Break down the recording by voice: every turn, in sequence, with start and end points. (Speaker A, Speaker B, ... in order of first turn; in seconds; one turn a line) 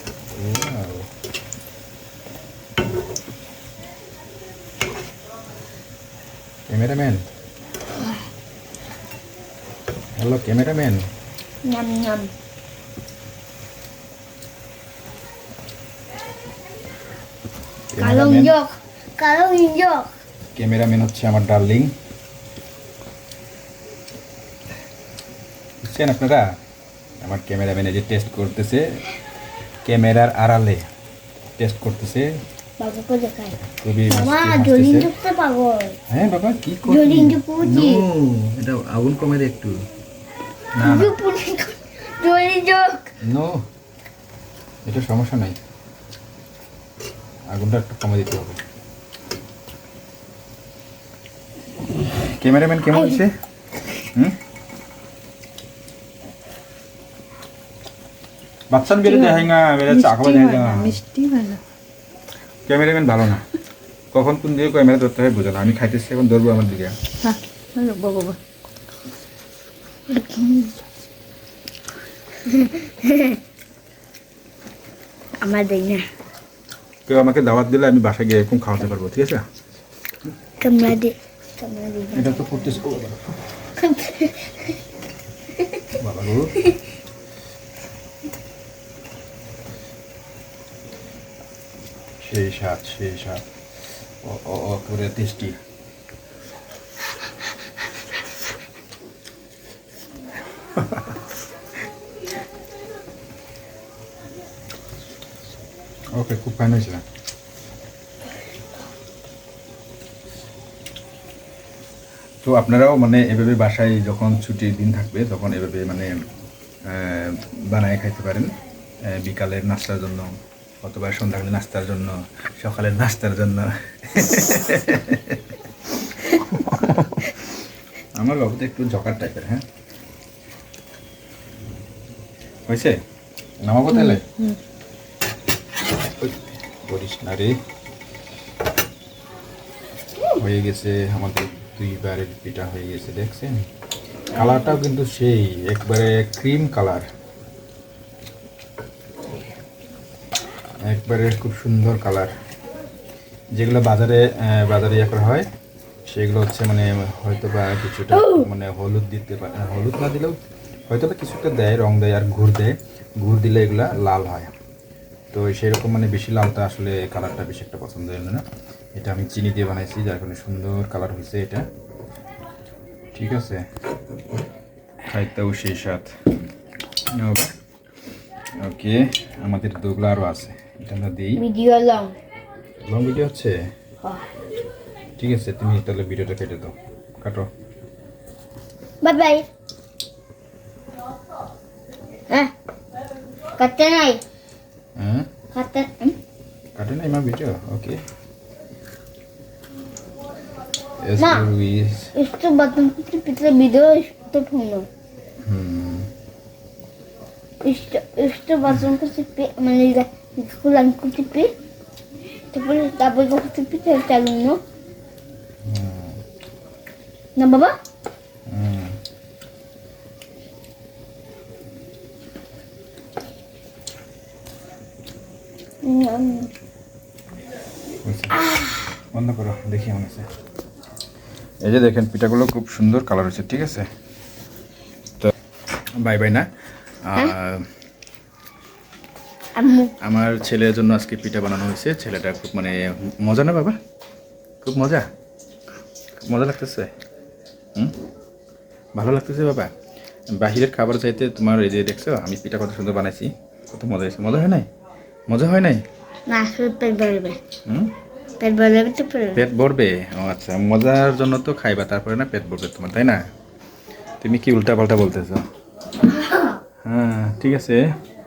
Speaker A: 0.3-1.1
Speaker A: 6.7-7.2
Speaker A: 10.2-11.1
Speaker B: 11.6-12.3
Speaker A: 17.9-18.5
Speaker B: 17.9-20.1
Speaker A: 20.5-21.9
Speaker A: 25.8-26.5
Speaker A: 27.2-28.9
Speaker A: 29.8-30.9
Speaker A: 31.6-32.4
Speaker B: 32.8-36.0
Speaker A: 33.6-35.1
Speaker A: 36.1-39.8
Speaker B: 36.8-38.1
Speaker A: 40.7-41.2
Speaker B: 40.8-43.1
Speaker A: 43.2-43.6
Speaker A: 44.9-45.6
Speaker A: 47.5-48.6
Speaker A: 52.2-53.3
Speaker A: 54.1-54.4
Speaker A: 58.7-61.0
Speaker C: 59.0-61.6
Speaker A: 62.7-63.4
Speaker A: 64.1-67.0
Speaker C: 67.2-68.4
Speaker B: 70.1-70.7
Speaker B: 72.4-73.4
Speaker B: 75.4-76.0
Speaker A: 77.1-79.4
Speaker B: 80.6-82.9
Speaker A: 82.1-83.5
Speaker B: 83.8-84.8
Speaker A: 86.0-86.6
Speaker A: 92.2-93.5
Speaker A: 94.0-95.6
Speaker A: 100.7-101.1
Speaker A: 106.1-107.0
Speaker A: 112.4-116.1
Speaker A: 116.9-118.5
Speaker A: 119.0-125.4
Speaker A: 126.5-127.2
Speaker A: 128.2-129.6
Speaker A: 132.7-133.0
Speaker A: 133.6-134.2
Speaker C: 133.9-134.6
Speaker A: 136.0-137.6
Speaker A: 140.3-143.7
Speaker A: 144.3-147.1
Speaker A: 150.8-152.3
Speaker A: 153.5-155.5
Speaker A: 156.1-160.4
Speaker B: 158.1-158.5
Speaker A: 160.9-164.5
Speaker A: 165.3-168.4
Speaker A: 168.9-171.7
Speaker A: 173.1-173.6
Speaker A: 175.1-176.1
Speaker A: 177.1-177.5
Speaker A: 178.6-181.4
Speaker B: 181.4-182.1
Speaker A: 182.8-183.7
Speaker B: 184.0-184.3
Speaker A: 185.2-187.5
Speaker B: 189.0-189.5
Speaker B: 192.3-192.5
Speaker B: 193.6-194.2
Speaker A: 194.9-195.3
Speaker B: 195.5-196.2
Speaker A: 196.7-198.0
Speaker A: 201.0-202.1
Speaker B: 201.2-201.5
Speaker B: 202.1-204.9
Speaker A: 205.4-206.1
Speaker B: 207.6-211.5
Speaker B: 212.5-214.6
Speaker A: 215.6-216.2
Speaker B: 217.3-217.8
Speaker A: 218.5-219.0
Speaker B: 225.8-226.5
Speaker A: 228.0-228.4
Speaker B: 228.3-228.8
Speaker A: 229.1-230.3
Speaker A: 231.6-233.9
Speaker A: 236.0-236.5
Speaker A: 237.1-237.7
Speaker B: 239.5-239.9
Speaker A: 240.0-243.8
Speaker A: 244.6-245.1
Speaker A: 246.2-246.9
Speaker A: 248.9-249.7
Speaker A: 250.3-254.7
Speaker A: 255.3-255.8
Speaker B: 256.3-257.4
Speaker A: 257.6-257.9
Speaker B: 258.4-259.5
Speaker A: 259.3-263.2
Speaker A: 264.2-265.4
Speaker A: 266.8-267.8